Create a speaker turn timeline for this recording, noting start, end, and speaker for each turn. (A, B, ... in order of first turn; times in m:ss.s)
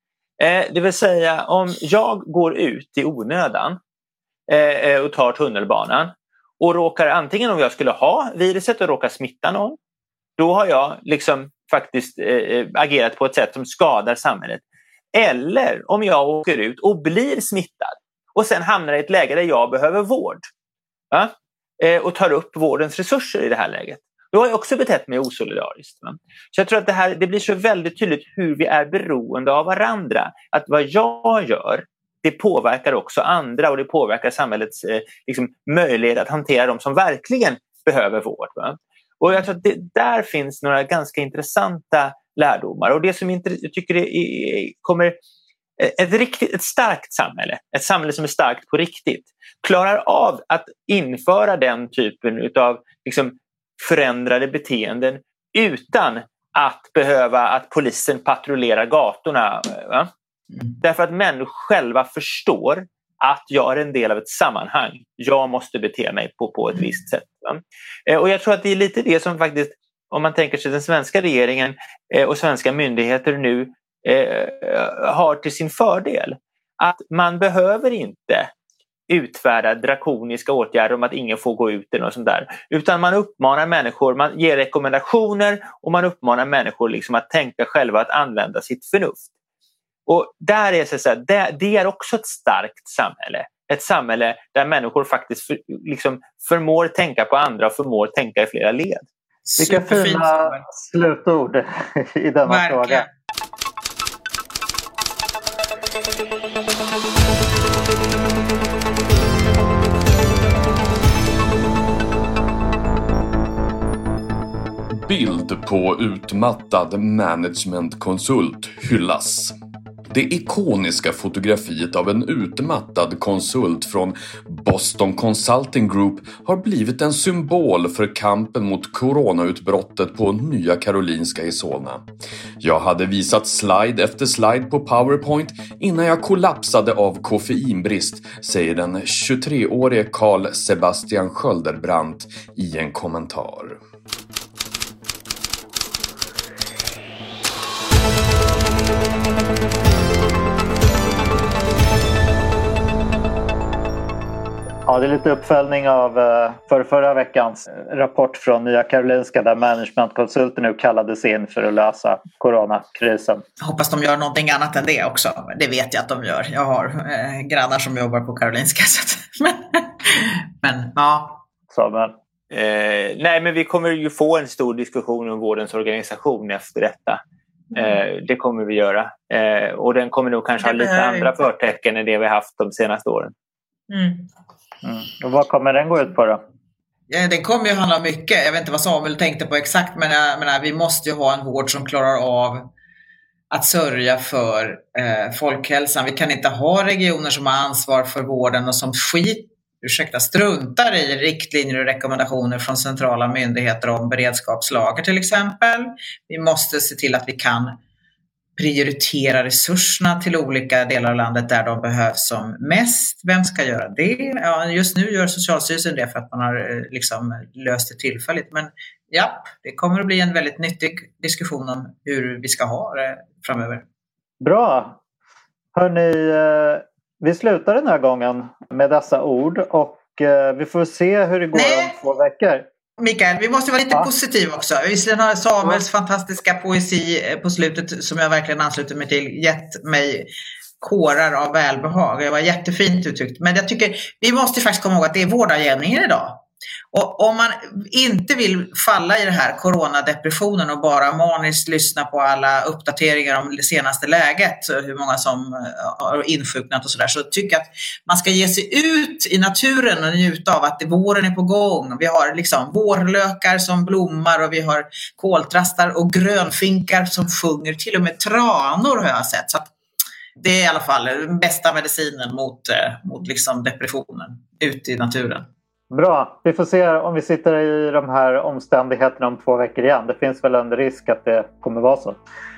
0:00.4-0:03.8 A
0:04.5-0:09.8 A
0:10.4-0:14.6 A
0:15.1-0:20.5 A
0:21.1-0:45.2 A
0:45.8-1:00.1 A
1:00.8-1:18.5 A
1:19.1-1:29.3 A
1:30.1-1:39.1 A
1:39.4-1:40.6 B
1:39.6-1:43.0 C
1:42.4-1:43.1 B
1:55.0-1:59.5 D
2:00.1-2:12.0 D
2:12.6-2:23.8 D
2:34.9-2:43.4 C
2:43.6-2:51.4 B
2:51.7-2:52.1 C
2:52.5-2:57.2 A
2:57.7-3:03.3 A
3:00.6-3:01.3 B
3:03.9-3:04.3 B
3:04.8-3:06.4 C
3:07.1-3:12.7 B
3:13.5-3:27.8 B
3:28.6-3:43.8 B
3:44.4-3:45.0 C
3:45.7-3:52.6 C
3:51.5-3:51.9 B
3:53.0-4:00.3 B
4:00.8-4:29.7 B
4:30.4-4:35.5 B
4:35.9-4:42.2 C